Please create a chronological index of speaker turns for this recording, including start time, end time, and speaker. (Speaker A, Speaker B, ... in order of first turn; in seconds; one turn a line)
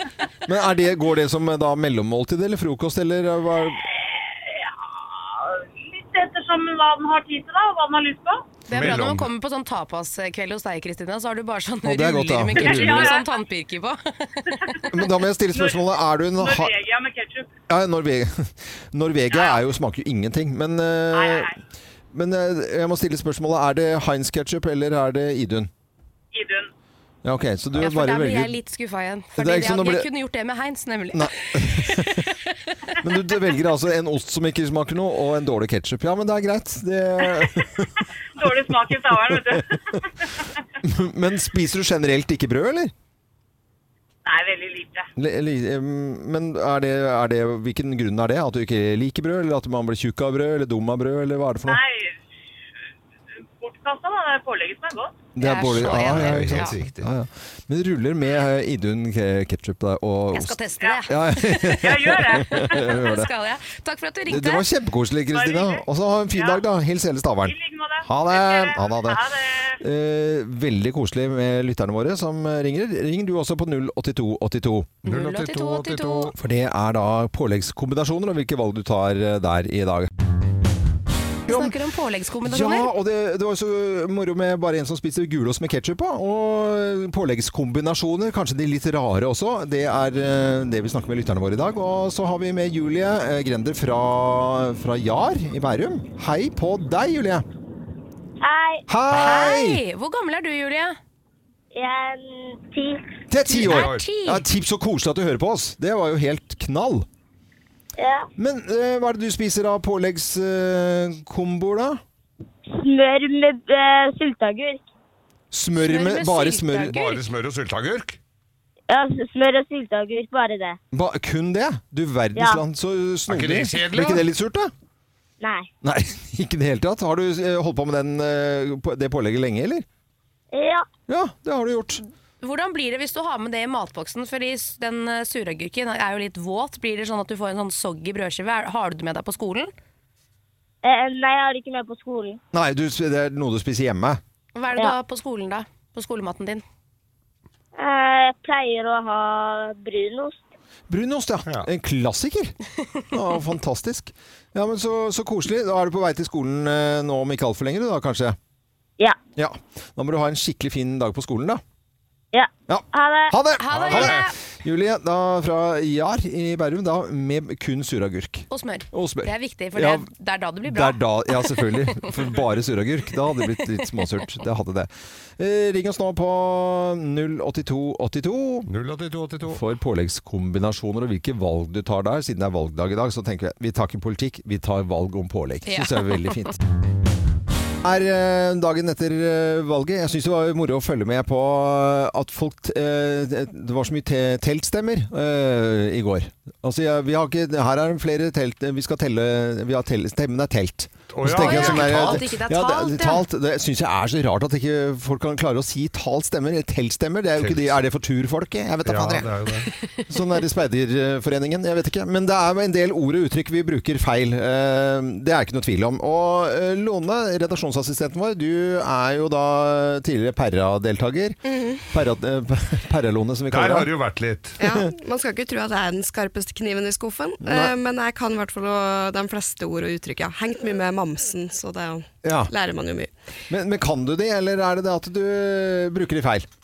Speaker A: 0.5-3.8
Speaker B: 3.9-8.4
Speaker C: 8.7-14.8
Speaker D: 8.7-9.3
Speaker A: 11.8-13.1
Speaker B: 12.6-13.3
Speaker B: 14.7-15.0
Speaker A: 14.9-16.7
Speaker B: 15.5-15.8
Speaker B: 16.4-17.5
Speaker A: 17.7-21.5
Speaker B: 19.3-19.6
Speaker B: 21.1-21.5
Speaker A: 22.1-25.7
Speaker B: 26.3-26.7
Speaker A: 27.2-28.6
Speaker C: 27.7-33.0
Speaker A: 29.4-30.1
Speaker A: 31.1-32.2
Speaker A: 33.0-37.9
Speaker B: 38.4-40.6
Speaker A: 39.1-40.0
Speaker A: 40.8-42.9
Speaker B: 44.2-45.1
Speaker A: 45.1-51.8
Speaker B: 51.6-52.1
Speaker B: 53.6-55.2
Speaker A: 55.4-63.3
Speaker C: 55.4-56.8
Speaker D: 55.7-57.1
Speaker C: 60.3-64.6
Speaker B: 61.8-62.8
Speaker A: 64.3-69.2
Speaker B: 65.3-65.8
Speaker B: 66.3-66.6
Speaker B: 67.5-69.8
Speaker A: 69.8-74.9
Speaker C: 75.0-76.3
Speaker D: 75.0-76.3
Speaker A: 76.3-80.1
Speaker A: 81.5-81.7
Speaker C: 81.5-82.9
Speaker A: 82.4-97.4
Speaker E: 98.4-98.8
Speaker A: 98.9-99.8
Speaker D: 99.1-99.5
Speaker C: 99.1-101.0
Speaker E: 101.7-103.1
Speaker A: 103.3-107.0
Speaker C: 103.4-104.4
Speaker D: 103.6-104.0
Speaker E: 108.0-108.3
Speaker A: 108.3-112.0
Speaker E: 112.7-114.9
Speaker A: 115.5-117.0
Speaker C: 115.8-117.2
Speaker D: 116.9-118.2
Speaker E: 118.9-120.8
Speaker A: 120.9-124.7
Speaker E: 122.3-122.6
Speaker D: 123.3-124.2
Speaker E: 125.4-125.7
Speaker A: 125.8-129.8
Speaker E: 130.5-130.8
Speaker A: 131.1-132.0
Speaker C: 132.4-139.7
Speaker E: 140.8-142.4
Speaker A: 142.5-144.2
Speaker C: 144.5-146.6
Speaker E: 147.8-150.5
Speaker A: 150.9-152.5
Speaker A: 153.1-158.4
Speaker A: 159.3-161.6
Speaker E: 162.3-163.4
Speaker A: 162.7-170.1
Speaker C: 163.6-164.3
Speaker D: 163.7-164.3
Speaker C: 168.5-172.1
Speaker A: 170.6-178.7
Speaker D: 178.7-179.6
Speaker A: 179.4-186.6
Speaker C: 185.7-186.5
Speaker A: 187.8-223.9
Speaker D: 201.1-202.3
Speaker C: 201.3-203.2
Speaker D: 207.4-207.8
Speaker D: 208.8-209.7
Speaker F: 221.4-221.8
Speaker D: 223.5-224.6
Speaker F: 224.6-233.1
Speaker A: 224.6-224.9
Speaker A: 227.4-227.7
Speaker A: 232.2-232.5
Speaker A: 233.5-236.5